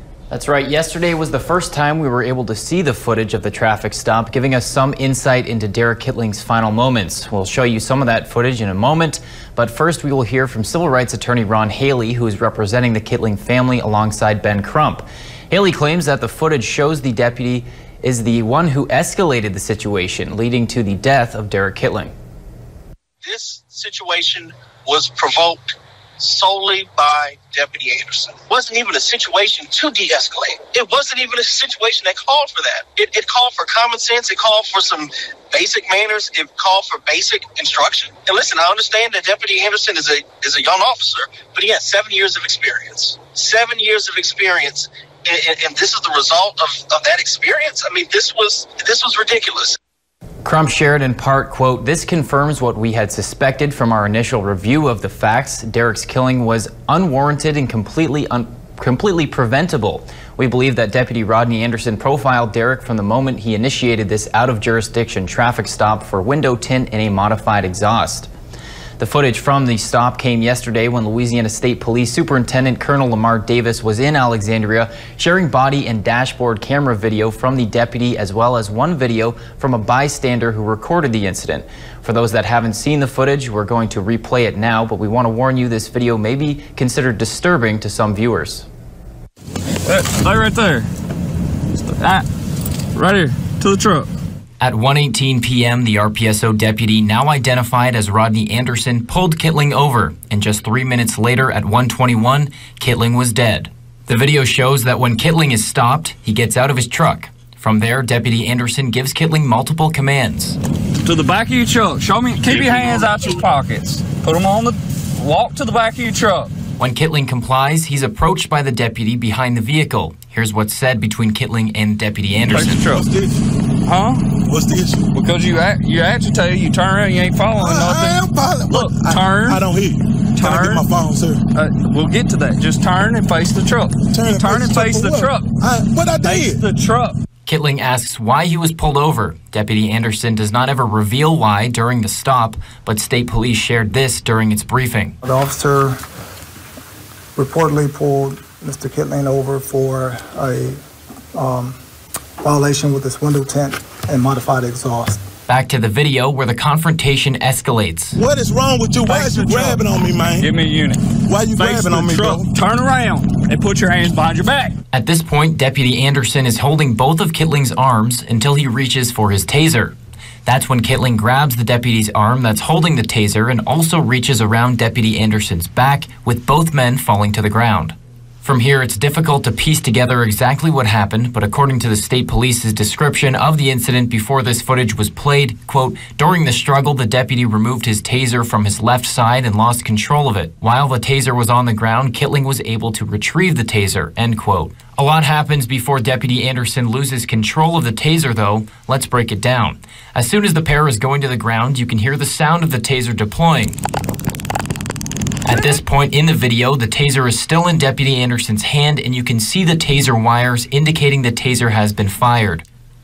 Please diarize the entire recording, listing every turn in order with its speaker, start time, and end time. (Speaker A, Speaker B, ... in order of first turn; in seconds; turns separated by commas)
Speaker A: 0.3-22.1, Speaker B: 23.2-49.8, Speaker A: 50.4-68.3, Speaker A: 69.0-88.7, Speaker C: 89.8-90.9, Speaker C: 91.7-92.3, Speaker C: 92.9-94.1, Speaker A: 94.6-110.6, Speaker C: 111.0-116.5, Speaker D: 112.5-113.4, Speaker A: 116.8-122.8, Speaker D: 122.5-123.5, Speaker C: 122.5-123.1, Speaker C: 123.8-124.3, Speaker D: 124.3-125.2, Speaker C: 125.1-129.6, Speaker D: 127.5-131.4, Speaker C: 130.3-130.8, Speaker C: 131.5-135.5, Speaker D: 134.0-136.7, Speaker C: 136.2-137.2, Speaker A: 137.5-145.2, Speaker E: 145.2-146.0, Speaker E: 147.4-150.8, Speaker E: 151.3-151.8, Speaker E: 152.4-155.2, Speaker A: 155.5-158.2, Speaker D: 158.1-160.6, Speaker C: 159.0-159.8, Speaker C: 160.4-161.0, Speaker D: 161.3-162.5, Speaker C: 161.6-164.8, Speaker A: 164.9-203.8, Speaker A: 205.4-212.6